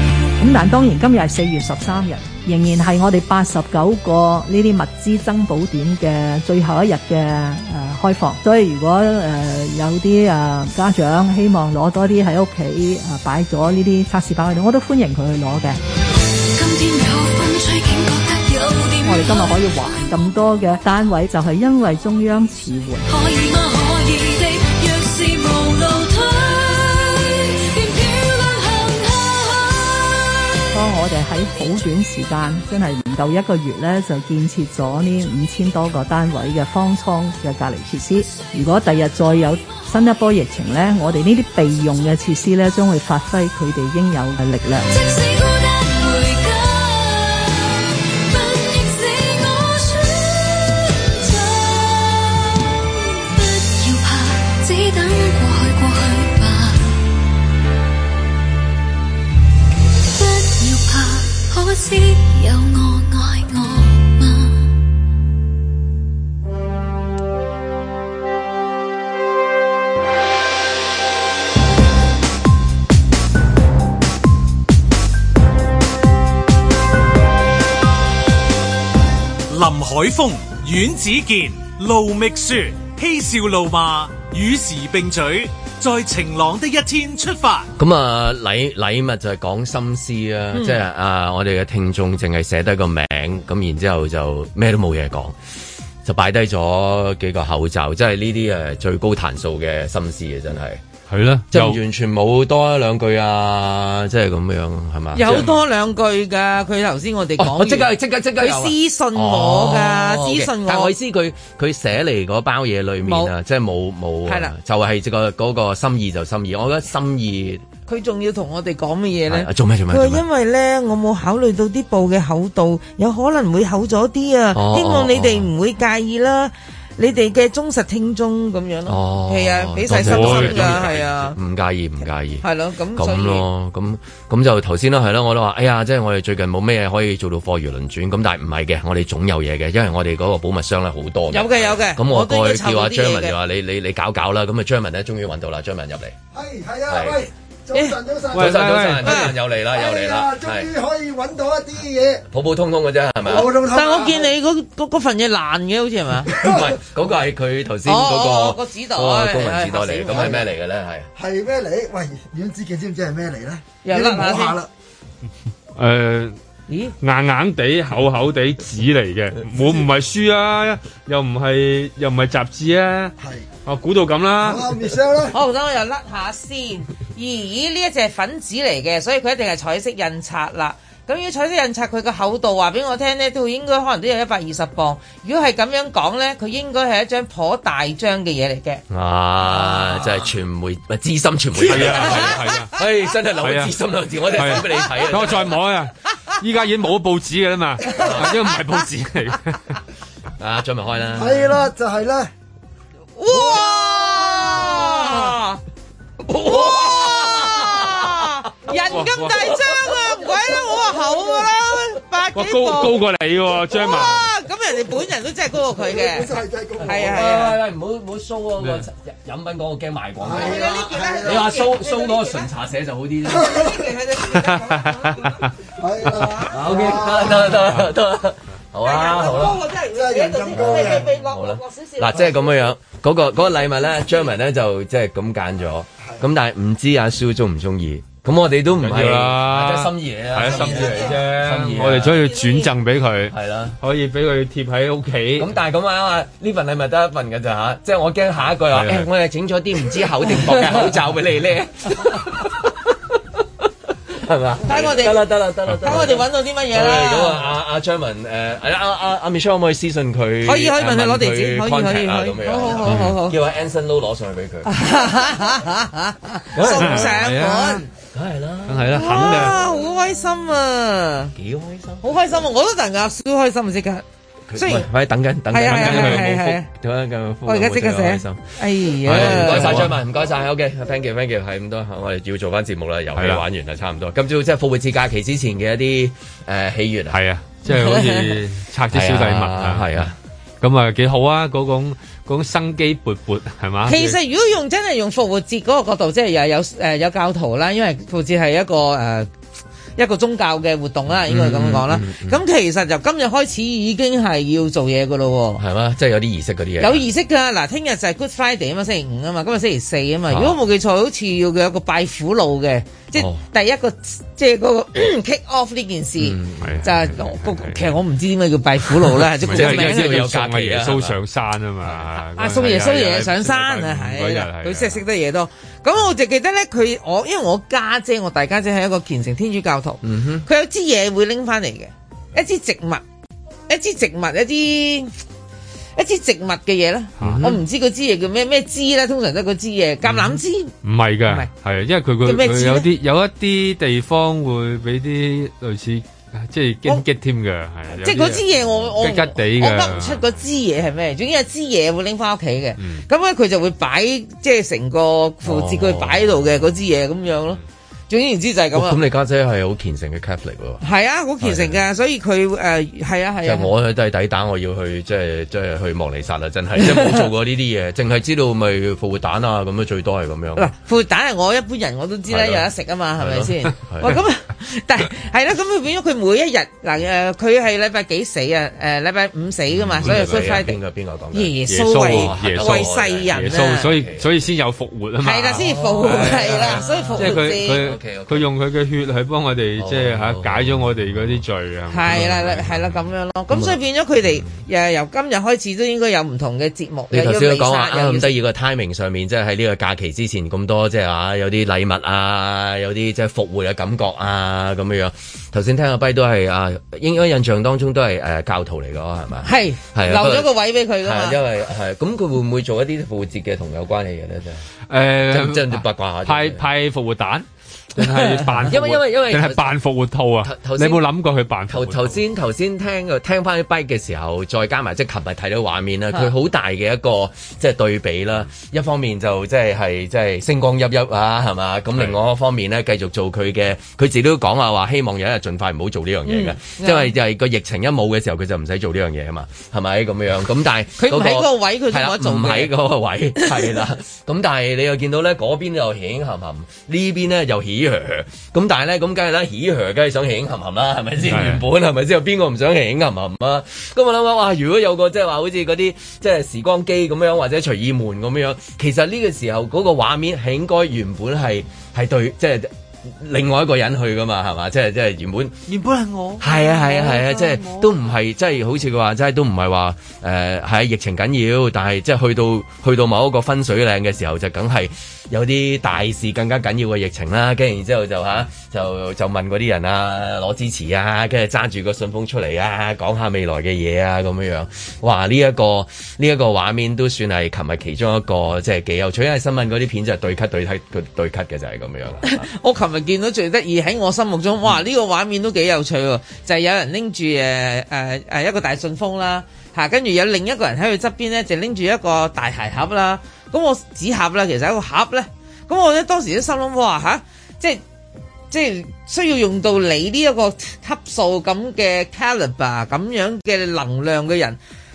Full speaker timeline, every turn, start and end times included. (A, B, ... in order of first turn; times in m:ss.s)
0:00.4-0:15.8 A
0:16.5-0:19.7 B
0:19.0-0:23.0 A
0:23.0-0:30.3 B
0:30.7-0:44.9 A
0:44.9-0:57.0 B
1:00.1-1:04.7 B
1:19.5-1:27.7 C
1:27.8-1:35.4 D
1:30.5-1:30.8 E
1:36.0-1:40.8 D
1:41.1-1:41.8 F
1:41.5-1:45.6 D
1:45.1-1:50.9 E
1:47.4-1:57.6 D
1:53.0-1:53.3 E
1:54.2-1:54.5 E
1:57.9-2:11.4 E
1:59.3-2:00.2 D
2:04.5-2:05.5 D
2:08.9-2:26.2 D
2:09.9-2:10.9 F
2:12.4-2:13.4 E
2:21.3-2:23.4 E
2:26.3-2:28.7 G
2:26.9-2:27.2 D
2:28.3-2:29.2 F
2:28.3-2:30.7 D
2:29.0-2:29.3 E
2:29.6-2:32.2 G
2:32.3-2:33.5 D
2:33.2-2:34.3 G
2:33.3-2:36.3 E
2:36.3-2:36.8 G
2:36.4-2:41.1 D
2:37.8-2:40.4 E
2:41.2-2:44.7 G
2:43.8-2:44.6 E
2:45.8-2:46.4 F
2:46.7-2:46.9 E
2:47.0-2:53.1 F
2:53.2-2:53.5 G
2:53.6-2:54.8 F
2:54.4-2:55.4 G
2:55.3-3:08.8 E
3:08.9-3:15.6 D
3:09.5-3:10.2 E
3:11.6-3:12.7 F
3:11.8-3:12.6 E
3:13.4-3:13.8 F
3:14.3-3:19.8 F
3:17.9-3:18.4 D
3:20.4-3:21.6 D
3:21.1-3:22.3 G
3:23.2-3:25.6 E
3:23.3-3:25.1 G
3:26.2-3:29.9 D
3:26.3-3:33.0 E
3:28.9-3:29.3 F
3:30.0-3:31.5 G
3:32.3-3:34.3 F
3:33.7-3:37.6 E
3:35.7-3:37.1 G
3:36.8-3:43.7 D
3:40.2-3:41.5 G
3:40.3-3:42.5 E
3:43.3-3:45.4 E
3:43.4-3:43.8 G
3:44.7-3:45.5 F
3:45.7-3:47.6 G
3:46.0-3:46.6 E
3:46.5-3:49.6 D
3:48.8-3:52.6 E
3:49.4-3:51.1 G
3:50.9-4:02.2 D
3:53.8-3:54.1 E
3:58.8-4:05.5 F
4:00.4-4:01.2 E
4:02.0-4:02.7 E
4:03.3-4:03.8 D
4:05.4-4:24.7 D
4:08.7-4:09.1 F
4:14.6-4:15.3 E
4:15.7-4:16.2 F
4:15.8-4:17.4 E
4:20.4-4:23.4 E
4:22.8-4:23.1 F
4:24.6-4:27.8 E
4:26.5-4:27.3 D
4:26.8-4:27.8 F
4:28.0-4:29.6 D
4:28.7-4:29.6 F
4:28.9-4:31.3 E
4:31.3-4:32.4 D
4:32.0-4:34.0 E
4:34.5-4:47.2 D
4:34.6-4:34.9 E
4:35.5-4:36.7 E
4:35.7-4:36.3 F
4:37.4-4:39.9 E
4:39.0-4:39.9 F
4:43.2-4:43.4 F
4:47.1-4:50.1 F
4:47.6-4:48.3 E
4:48.9-4:50.2 D
4:50.6-4:54.2 F
4:53.9-4:59.3 E
5:00.0-5:05.6 E
5:01.2-5:02.4 D
5:05.6-5:07.0 D
5:06.8-5:20.3 E
5:10.3-5:10.6 D
5:13.1-5:13.4 D
5:16.2-5:17.0 D
5:16.6-5:18.0 F
5:19.4-5:21.2 D
5:19.4-5:25.0 F
5:22.4-5:33.0 E
5:30.0-5:30.4 D
5:33.7-5:35.1 E
5:36.0-5:40.7 E
5:37.2-5:37.5 F
5:37.2-5:37.6 D
5:40.0-5:48.4 F
5:42.2-5:42.9 E
5:48.0-5:59.0 E
5:49.0-5:50.4 F
5:52.8-5:53.0 F
5:55.4-5:56.4 D
5:58.7-6:00.8 D
6:00.8-6:03.7 E
6:01.4-6:01.8 D
6:03.4-6:10.7 D
6:06.8-6:07.2 E
6:10.6-6:20.8 E
6:12.3-6:14.2 D
6:19.7-6:24.3 D
6:20.0-6:20.5 F
6:21.3-6:23.9 E
6:21.7-6:32.9 F
6:25.2-6:27.8 E
6:25.5-6:28.5 D
6:29.8-6:31.4 D
6:31.9-6:38.4 E
6:32.1-6:32.7 D
6:33.5-6:33.8 D
6:37.1-6:54.6 D
6:49.4-6:51.4 E
6:54.9-7:02.2 F
6:55.3-6:56.6 D
6:58.2-6:58.6 E
6:58.6-6:59.8 D
7:00.4-7:01.0 D
7:01.7-7:45.6 D
7:16.2-7:17.1 E
7:21.0-7:22.7 E
7:23.4-7:23.7 E
7:31.3-7:31.6 F
7:45.7-7:46.4 F
7:46.1-7:47.8 E
7:46.4-8:12.5 D
8:12.2-8:27.8 E
8:28.5-8:34.6 E